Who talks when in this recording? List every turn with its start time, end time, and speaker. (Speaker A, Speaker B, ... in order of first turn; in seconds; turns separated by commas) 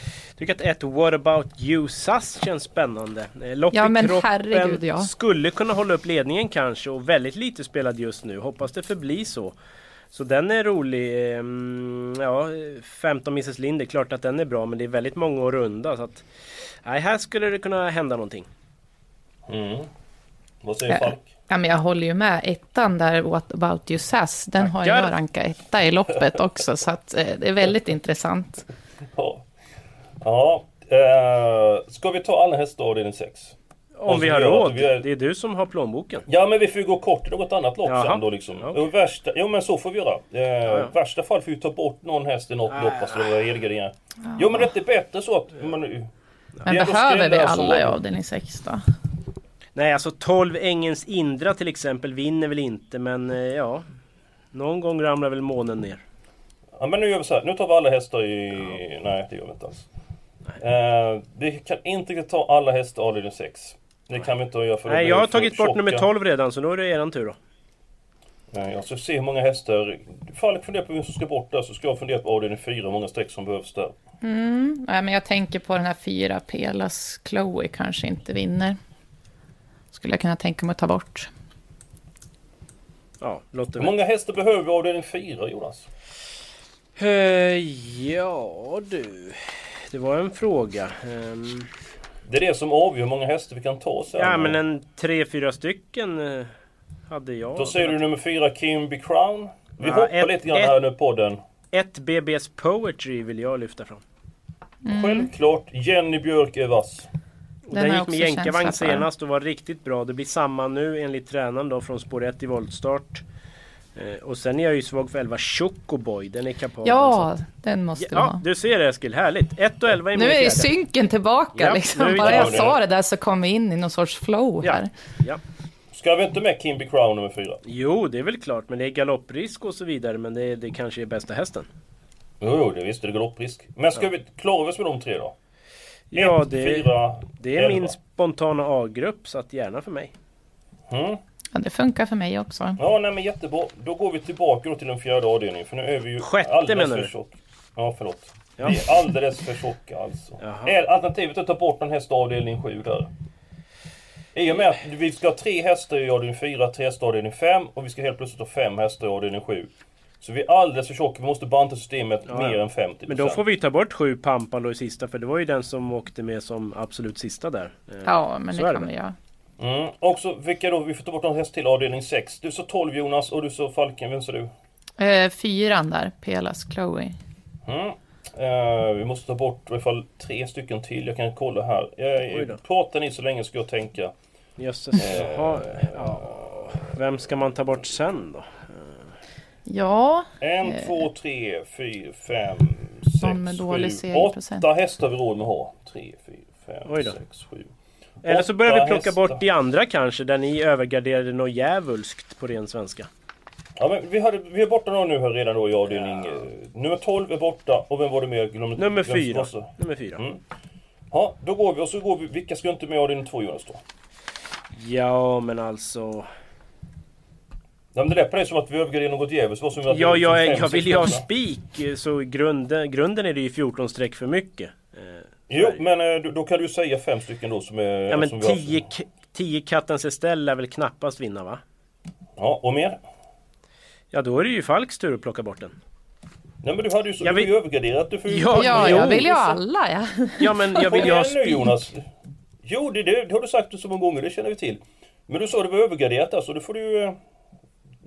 Speaker A: 0.4-9.5, Speaker B: 3.7-5.1, Speaker A: 10.1-16.2, Speaker A: 16.8-18.5, Speaker C: 19.5-19.9, Speaker C: 20.6-21.2, Speaker B: 20.9-28.7, Speaker A: 24.6-25.1, Speaker C: 29.1-29.4, Speaker C: 30.2-35.1, Speaker A: 34.0-36.2, Speaker C: 36.3-46.1, Speaker A: 37.8-38.9, Speaker A: 40.7-40.9, Speaker A: 42.7-43.5, Speaker B: 44.3-44.6, Speaker C: 46.6-48.0, Speaker B: 46.6-48.8, Speaker A: 49.7-53.8, Speaker A: 54.5-56.0, Speaker C: 56.8-59.9, Speaker C: 60.6-66.1, Speaker A: 64.8-67.3, Speaker C: 68.5-73.9, Speaker B: 74.2-78.8, Speaker B: 79.9-81.3, Speaker A: 83.2-83.9, Speaker C: 83.7-85.9, Speaker A: 87.0-91.7, Speaker C: 92.2-94.6, Speaker A: 94.2-96.5, Speaker A: 97.1-98.0, Speaker C: 97.5-101.4, Speaker A: 99.8-100.8, Speaker A: 101.7-104.0, Speaker B: 104.8-105.3, Speaker C: 104.9-107.1, Speaker A: 107.7-113.2, Speaker B: 107.7-109.1, Speaker A: 114.0-117.3, Speaker B: 116.8-118.4, Speaker A: 118.0-120.7, Speaker B: 120.1-124.9, Speaker A: 121.5-122.8, Speaker C: 122.2-122.8, Speaker A: 124.6-125.4, Speaker C: 125.9-127.6, Speaker A: 127.7-131.7, Speaker C: 132.4-135.3, Speaker A: 136.1-140.1, Speaker C: 136.1-137.9, Speaker C: 140.9-141.2, Speaker B: 141.5-142.8, Speaker C: 142.8-153.1, Speaker A: 146.2-147.1, Speaker A: 150.4-150.7, Speaker C: 154.3-159.7, Speaker C: 160.2-163.4, Speaker A: 162.3-168.9, Speaker B: 168.0-169.1, Speaker C: 169.6-174.5, Speaker B: 175.0-177.2, Speaker C: 177.7-184.1, Speaker A: 182.3-182.6, Speaker A: 184.6-188.9, Speaker C: 185.0-186.4, Speaker B: 189.7-191.0, Speaker C: 190.4-197.7, Speaker B: 193.2-194.6, Speaker A: 196.8-197.2, Speaker C: 198.2-199.4, Speaker A: 198.2-203.1, Speaker C: 203.8-210.4, Speaker A: 205.9-206.4, Speaker A: 208.8-210.2, Speaker C: 211.1-213.8, Speaker A: 214.7-216.3, Speaker C: 217.9-221.2, Speaker A: 219.9-225.8, Speaker C: 225.5-228.8, Speaker A: 228.1-231.6, Speaker C: 232.4-233.0, Speaker A: 234.1-235.7, Speaker C: 236.6-239.5, Speaker A: 237.2-237.5, Speaker A: 238.3-239.6, Speaker B: 238.5-241.7, Speaker A: 240.4-241.6, Speaker C: 240.8-242.0, Speaker C: 242.6-247.2